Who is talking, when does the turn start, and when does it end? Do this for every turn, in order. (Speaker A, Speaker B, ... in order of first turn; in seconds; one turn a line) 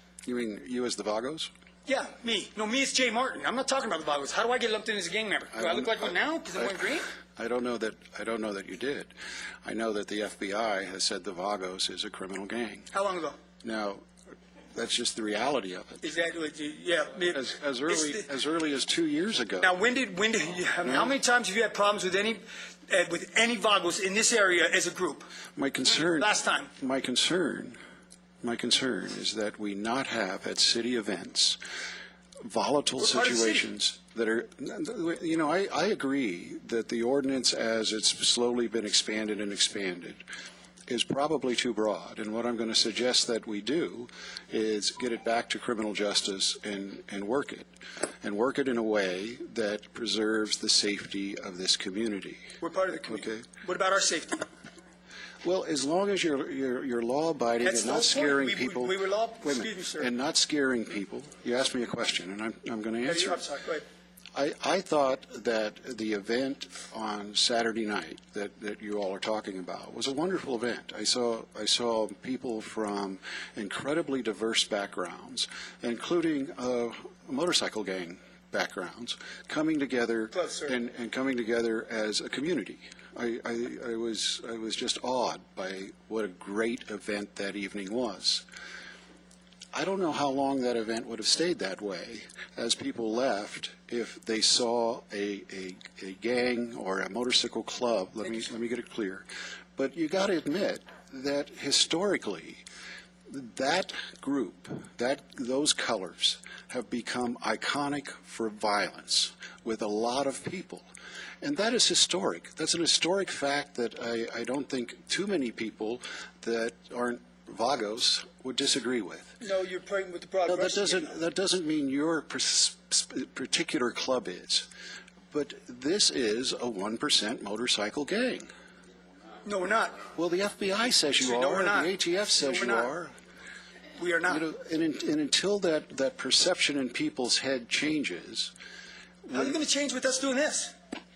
Speaker A: 0.3-1.5
Speaker B: 1.9-7.1
Speaker A: 5.5-6.2
Speaker A: 7.4-9.1
Speaker A: 9.6-12.9
Speaker B: 12.9-13.4
Speaker A: 13.6-14.0
Speaker A: 14.8-16.0
Speaker B: 16.0-18.2
Speaker A: 17.3-19.7
Speaker B: 19.6-25.3
Speaker A: 20.8-21.1
Speaker A: 25.6-27.8
Speaker B: 25.9-26.7
Speaker A: 28.4-31.6
Speaker A: 32.4-40.2
Speaker B: 33.0-33.6
Speaker A: 40.9-47.7
Speaker A: 48.2-53.5
Speaker B: 52.6-54.5
Speaker A: 55.4-63.4
Speaker B: 57.6-60.1
Speaker B: 63.0-63.8
Speaker A: 64.3-88.4
Speaker B: 80.3-80.7
Speaker A: 89.7-102.6
Speaker A: 103.3-110.9
Speaker A: 111.4-119.3
Speaker B: 119.4-121.1
Speaker A: 120.5-124.7
Speaker A: 125.3-128.5
Speaker B: 129.5-130.0
Speaker A: 130.2-133.1
Speaker B: 131.1-132.9
Speaker B: 134.0-134.4
Speaker A: 134.3-138.5
Speaker A: 139.3-139.5
Speaker B: 139.3-140.8